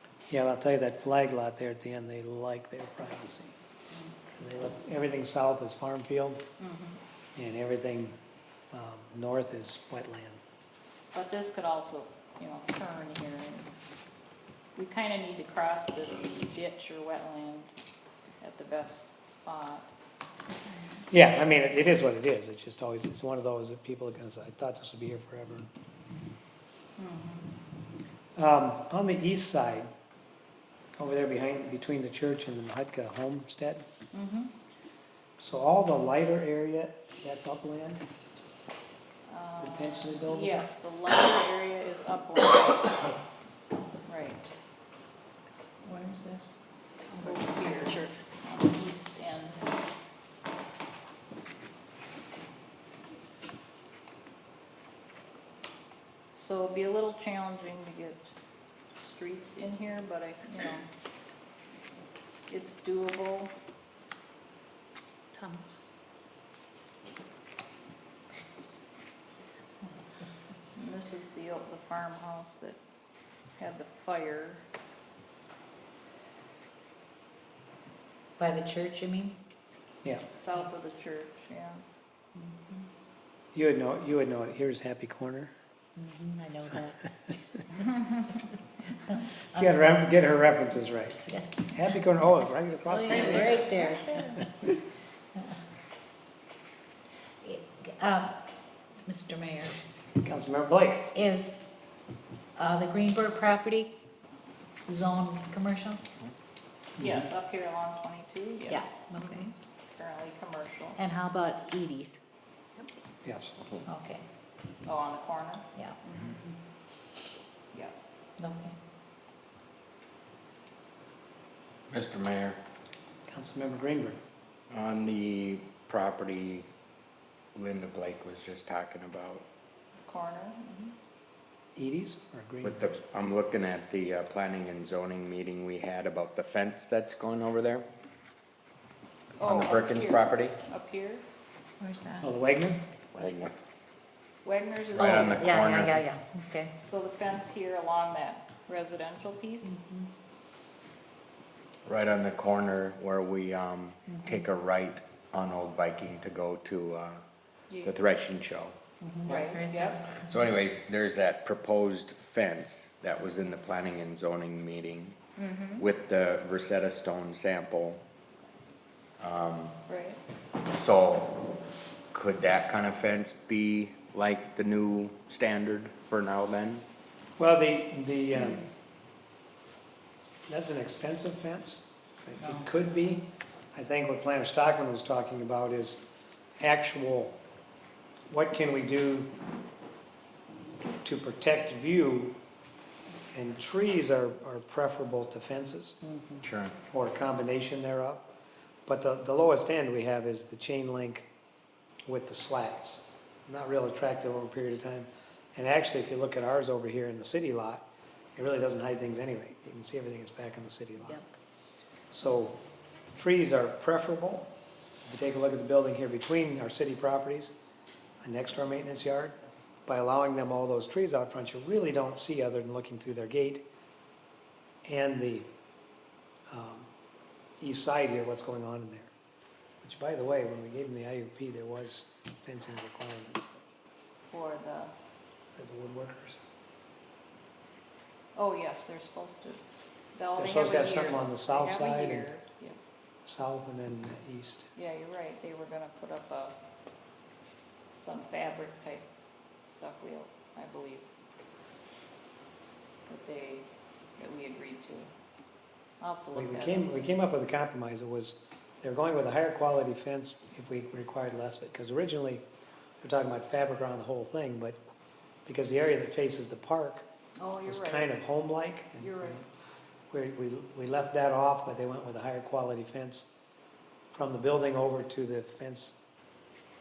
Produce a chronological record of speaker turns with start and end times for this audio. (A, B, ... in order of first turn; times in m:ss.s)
0:00.3-0:03.6 A
0:04.4-0:06.4 A
0:06.6-0:07.0 B
0:07.4-0:08.2 A
0:08.7-0:10.4 A
0:11.1-0:13.7 B
0:14.8-0:17.7 B
0:18.4-0:19.9 B
0:21.1-0:25.7 A
0:27.0-0:27.5 B
0:28.4-0:29.9 A
0:31.0-0:33.9 A
0:34.1-0:34.5 B
0:35.4-0:38.0 A
0:39.3-0:43.1 B
0:39.6-0:40.6 A
0:44.1-0:44.5 B
0:45.8-0:46.6 C
0:47.1-0:47.9 C
0:47.2-0:49.6 B
0:56.4-0:58.3 B
0:59.0-1:00.9 B
1:02.5-1:03.5 B
1:05.4-1:05.8 C
1:10.8-1:12.8 B
1:13.6-1:14.6 B
1:18.4-1:19.4 C
1:20.3-1:21.8 B
1:22.4-1:22.9 C
1:23.5-1:25.5 A
1:26.0-1:27.1 C
1:27.7-1:28.0 C
1:29.5-1:33.7 A
1:31.3-1:31.7 C
1:32.9-1:34.2 C
1:33.0-1:34.5 B
1:37.4-1:38.4 C
1:39.1-1:39.8 C
1:40.2-1:41.1 A
1:41.1-1:41.7 C
1:42.6-1:43.9 C
1:44.9-1:46.0 C
1:47.0-1:51.0 B
1:48.7-1:49.5 C
1:51.0-1:52.2 C
1:53.2-1:53.5 A
1:53.9-1:54.2 C
1:54.8-1:56.4 B
1:57.7-1:58.1 B
1:58.4-1:58.8 C
2:01.9-2:02.6 D
2:03.3-2:04.2 A
2:04.7-2:06.7 D
2:07.6-2:09.4 D
2:10.0-2:11.0 B
2:11.8-2:13.0 A
2:12.6-2:17.9 D
2:19.4-2:21.2 B
2:19.4-2:20.6 D
2:21.8-2:22.3 C
2:22.2-2:22.8 A
2:23.2-2:23.5 D
2:24.4-2:25.7 B
2:24.9-2:26.0 D
2:25.0-2:26.7 C
2:26.8-2:29.7 B
2:29.6-2:30.1 C
2:31.9-2:37.2 D
2:34.1-2:34.4 C
2:37.7-2:38.0 B
2:37.8-2:38.8 D
2:39.0-2:40.4 C
2:39.2-2:40.0 B
2:40.2-2:45.2 D
2:45.4-2:45.9 B
2:45.8-2:48.0 D
2:49.2-2:49.8 D
2:49.9-2:50.2 B
2:50.6-2:51.3 D
2:52.1-2:56.8 D
2:57.4-2:58.6 A
3:00.5-3:06.0 A
3:06.6-3:07.4 A
3:08.3-3:09.3 A
3:11.0-3:12.4 A
3:13.3-3:16.0 A
3:16.0-3:16.4 C
3:16.4-3:16.8 D
3:16.9-3:18.2 A
3:18.9-3:21.3 A
3:22.1-3:31.2 A
3:32.1-3:32.6 A
3:33.2-3:34.5 A
3:35.0-3:37.6 A
3:38.2-3:39.4 A
3:39.9-3:43.6 A
3:44.8-3:45.5 A
3:46.5-3:46.9 A
3:47.6-3:49.1 A
3:49.8-3:53.6 A
3:54.3-3:54.9 B
3:55.6-3:56.4 A
3:58.4-3:59.6 B
4:00.2-4:02.8 B
4:00.4-4:02.3 A
4:03.2-4:04.7 A
4:04.8-4:06.6 B
4:08.0-4:09.1 B
4:09.7-4:11.1 B
4:13.1-4:13.7 B
4:14.2-4:15.1 B
4:16.0-4:17.0 B
4:16.3-4:22.4 A
4:23.0-4:24.8 A
4:25.5-4:27.0 A
4:27.4-4:28.2 B
4:27.7-4:29.4 A
4:29.0-4:29.4 B
4:30.1-4:33.3 A
4:34.1-4:36.0 A